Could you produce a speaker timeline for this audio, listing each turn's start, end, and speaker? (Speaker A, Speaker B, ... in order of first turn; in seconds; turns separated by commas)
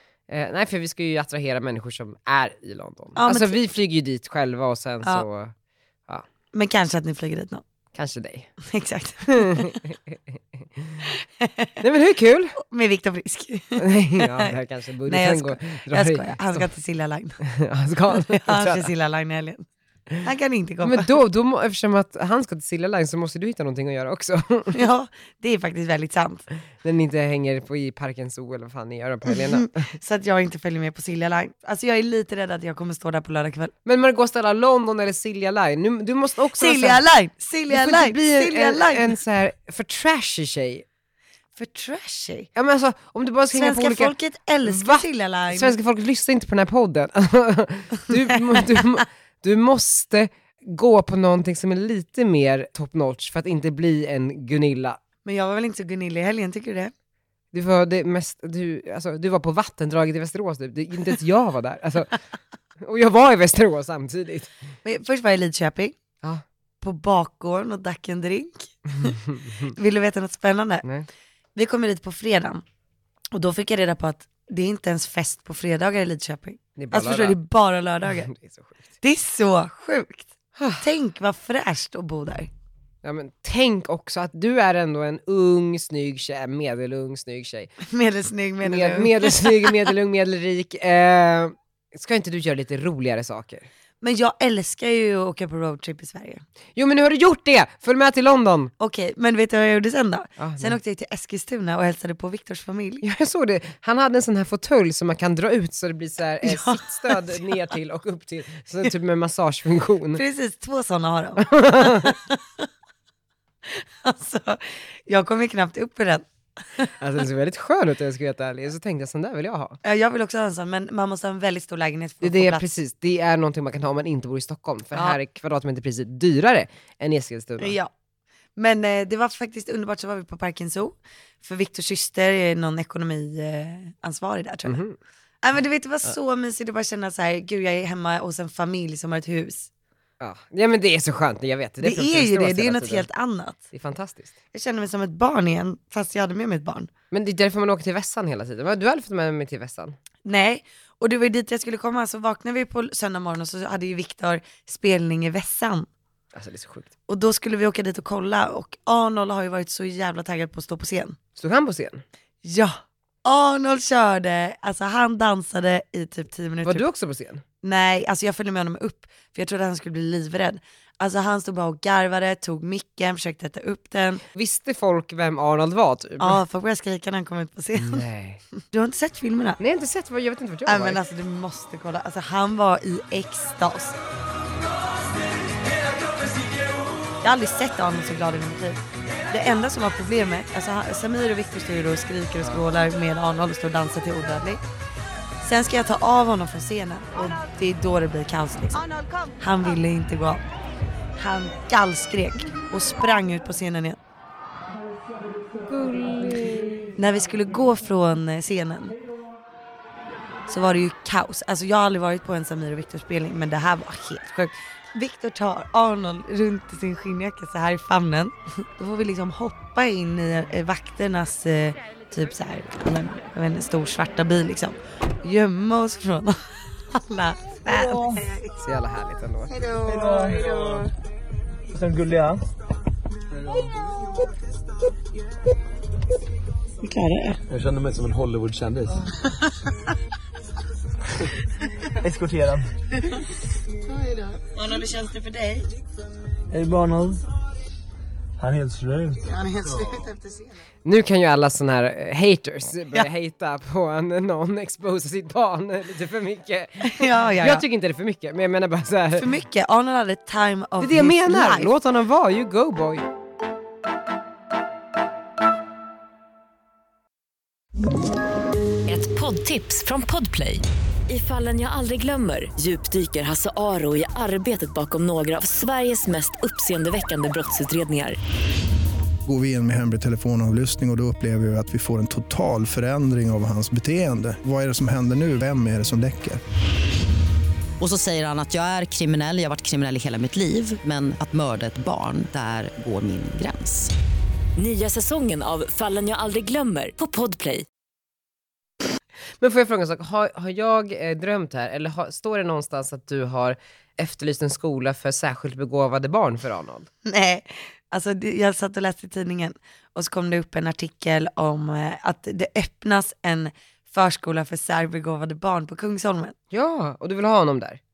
Speaker A: 0.3-5.5, Speaker B: 3.1-3.5, Speaker B: 6.5-7.6, Speaker A: 7.9-8.5, Speaker B: 8.6-9.8, Speaker A: 9.3-11.1, Speaker B: 11.0-11.8, Speaker A: 11.8-12.6, Speaker B: 12.6-17.4, Speaker A: 13.8-16.7, Speaker A: 17.4-18.9, Speaker B: 18.1-19.6, Speaker B: 20.2-21.1, Speaker A: 20.8-24.8, Speaker B: 24.7-26.4, Speaker A: 26.8-29.9, Speaker B: 29.3-33.7, Speaker A: 33.8-37.0, Speaker B: 36.5-39.2, Speaker A: 37.7-40.8, Speaker B: 41.5-42.5, Speaker A: 42.5-44.1, Speaker B: 43.5-45.7, Speaker A: 44.6-55.0, Speaker B: 55.2-56.9, Speaker A: 57.5-62.2, Speaker A: 62.8-64.5, Speaker B: 64.8-66.0, Speaker B: 66.8-70.8, Speaker B: 71.5-72.6, Speaker B: 73.3-78.3, Speaker A: 76.8-77.4, Speaker A: 78.1-78.8, Speaker B: 79.0-82.5, Speaker A: 80.5-80.9, Speaker A: 83.0-87.7, Speaker B: 87.8-89.9, Speaker A: 88.6-93.7, Speaker B: 94.0-96.4, Speaker A: 96.8-98.7, Speaker B: 98.8-103.0, Speaker A: 100.4-100.8, Speaker A: 103.0-110.2, Speaker B: 106.4-107.6, Speaker B: 110.2-112.7, Speaker A: 111.4-112.1, Speaker B: 113.7-116.2, Speaker A: 116.8-119.8, Speaker B: 119.8-122.7, Speaker A: 122.2-127.7, Speaker B: 124.9-125.2, Speaker B: 127.6-127.9, Speaker B: 128.6-134.8, Speaker A: 134.7-135.0, Speaker B: 135.4-139.7, Speaker A: 140.2-143.1, Speaker B: 141.8-143.6, Speaker A: 143.7-144.3, Speaker B: 144.5-146.9, Speaker A: 147.1-149.9, Speaker B: 150.2-155.9, Speaker A: 156.3-156.9, Speaker B: 157.1-161.2, Speaker A: 161.3-162.0, Speaker B: 162.4-166.8, Speaker A: 166.6-167.4, Speaker B: 167.6-174.2, Speaker A: 174.3-176.4, Speaker B: 176.2-178.1, Speaker A: 177.7-178.4, Speaker B: 178.7-179.6, Speaker A: 179.6-181.0, Speaker B: 180.7-184.0, Speaker B: 187.2-194.6, Speaker B: 195.4-198.9, Speaker B: 199.4-200.4, Speaker B: 201.2-204.0, Speaker A: 205.7-206.9, Speaker B: 207.0-208.9, Speaker B: 210.5-228.5, Speaker C: 227.7-228.2, Speaker A: 228.6-229.6, Speaker C: 229.8-230.9, Speaker C: 231.7-232.4, Speaker C: 233.3-233.7, Speaker B: 236.8-237.4, Speaker C: 237.5-239.1, Speaker C: 242.0-242.7, Speaker B: 244.5-245.7, Speaker C: 246.5-247.2, Speaker C: 248.4-249.8, Speaker B: 249.3-250.2, Speaker A: 250.8-259.3, Speaker B: 256.8-257.6, Speaker B: 259.1-261.7, Speaker A: 260.8-263.1, Speaker D: 268.9-278.2, Speaker E: 279.2-286.4, Speaker F: 287.8-293.9, Speaker D: 294.6-297.6, Speaker A: 299.4-306.9, Speaker B: 307.0-316.4, Speaker A: 316.5-317.8